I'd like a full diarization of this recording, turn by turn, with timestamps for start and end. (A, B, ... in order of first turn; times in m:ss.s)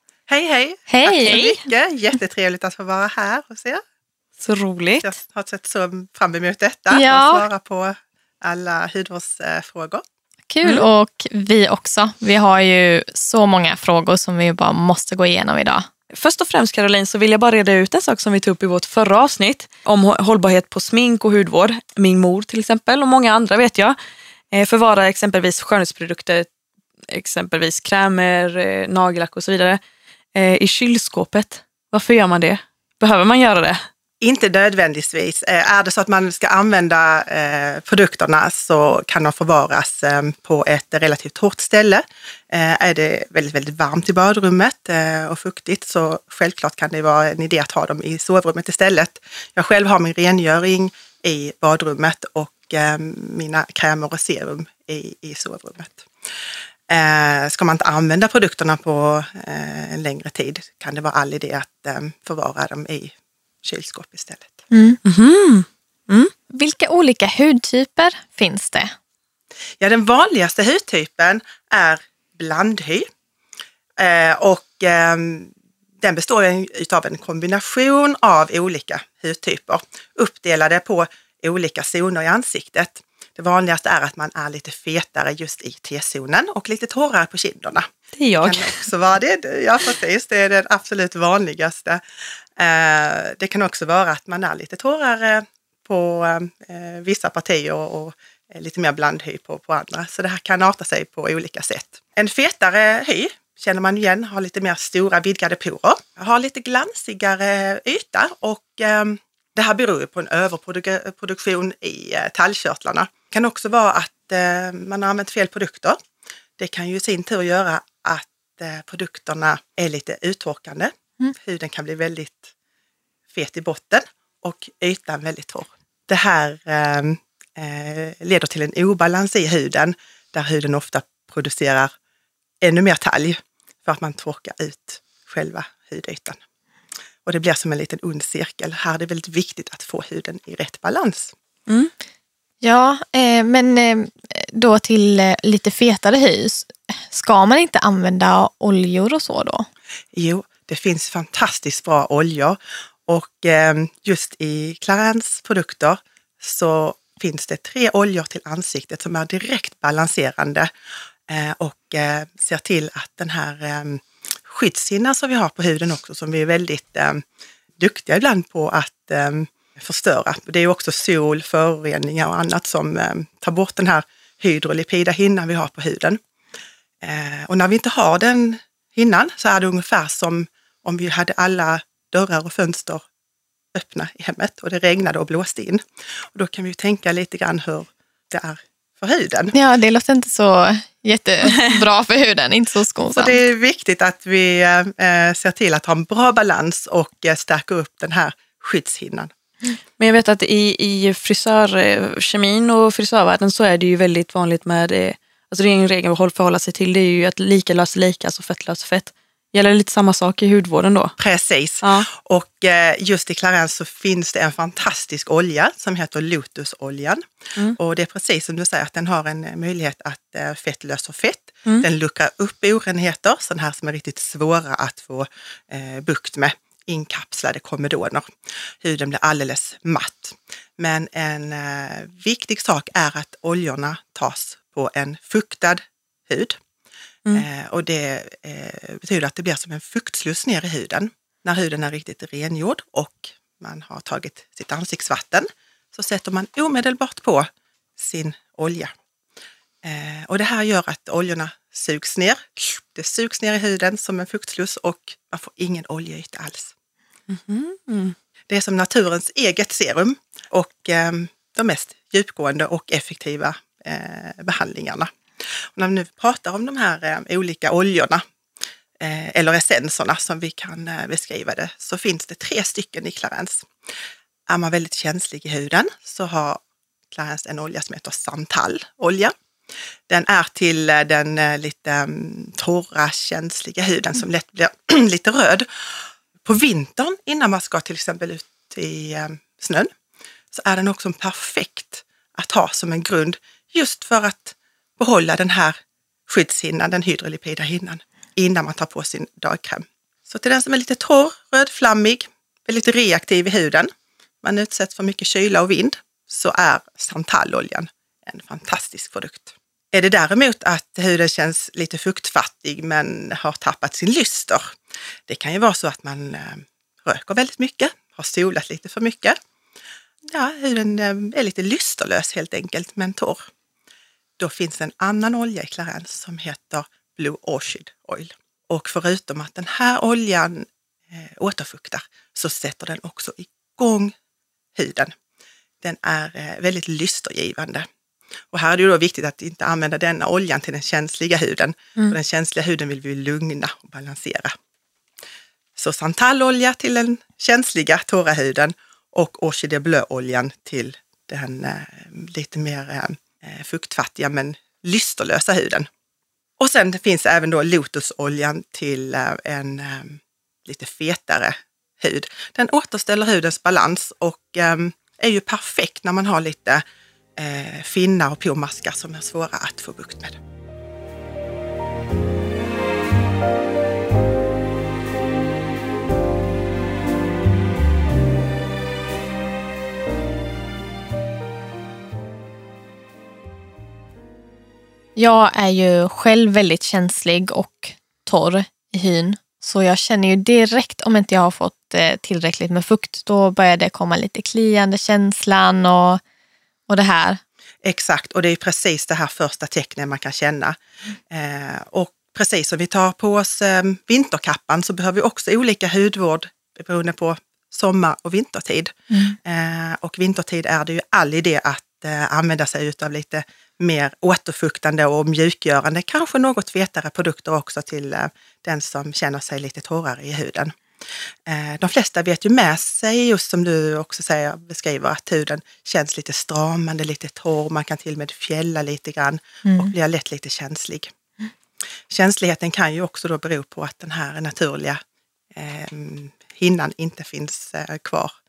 0:00.3-0:03.8 A
0:00.9-0:01.6 B
0:04.4-0:05.1 C
0:05.0-0:10.0 A
0:06.9-0:07.5 B
0:10.5-0:15.9 B
0:16.1-0:24.0 C
0:24.5-0:26.5 C
0:27.1-0:29.8 C
0:30.4-0:33.8 C
0:34.2-0:56.1 A
0:56.9-1:04.6 A
1:04.7-1:05.0 B
1:05.0-1:06.3 C
1:06.5-1:08.9 B
1:09.8-1:13.1 A
1:14.0-1:27.9 A
1:28.2-1:28.8 C
1:28.4-1:32.0 A
1:32.6-1:56.0 A
1:56.6-2:02.5 A
2:03.3-2:11.9 A
2:12.6-2:16.4 A
2:17.2-2:21.4 A
2:22.6-2:29.7 B
2:30.1-2:40.7 A
2:41.3-2:47.2 A
2:47.8-2:56.2 A
2:57.0-3:03.0 A
3:03.7-3:09.5 A
3:09.5-3:13.4 B
3:13.2-3:19.3 A
3:20.0-3:31.1 C
3:31.2-3:37.2 A
3:31.8-3:32.1 C
3:37.8-3:56.6 A
3:57.3-4:08.9 A
4:09.8-4:16.7 A
4:17.3-4:18.2 C
4:18.5-4:28.2 A
4:29.0-4:33.7 A
4:34.5-4:39.3 A
4:40.1-4:49.9 A
4:50.5-5:03.9 A
5:04.4-5:14.8 A
5:15.3-5:19.4 A
5:20.3-5:23.5 A
5:24.4-5:34.2 A
5:34.8-5:35.1 A
5:35.8-5:37.9 A
5:38.5-5:44.5 A
5:45.8-5:55.9 A
5:56.6-6:06.8 A
6:07.4-6:10.4 A
6:25.2-6:36.2 B
6:36.9-6:37.4 B
6:37.8-6:40.8 A
6:41.3-7:00.8 A
7:01.5-7:11.1 A
7:09.6-7:09.9 B
7:12.1-7:15.0 A
7:15.5-7:18.3 A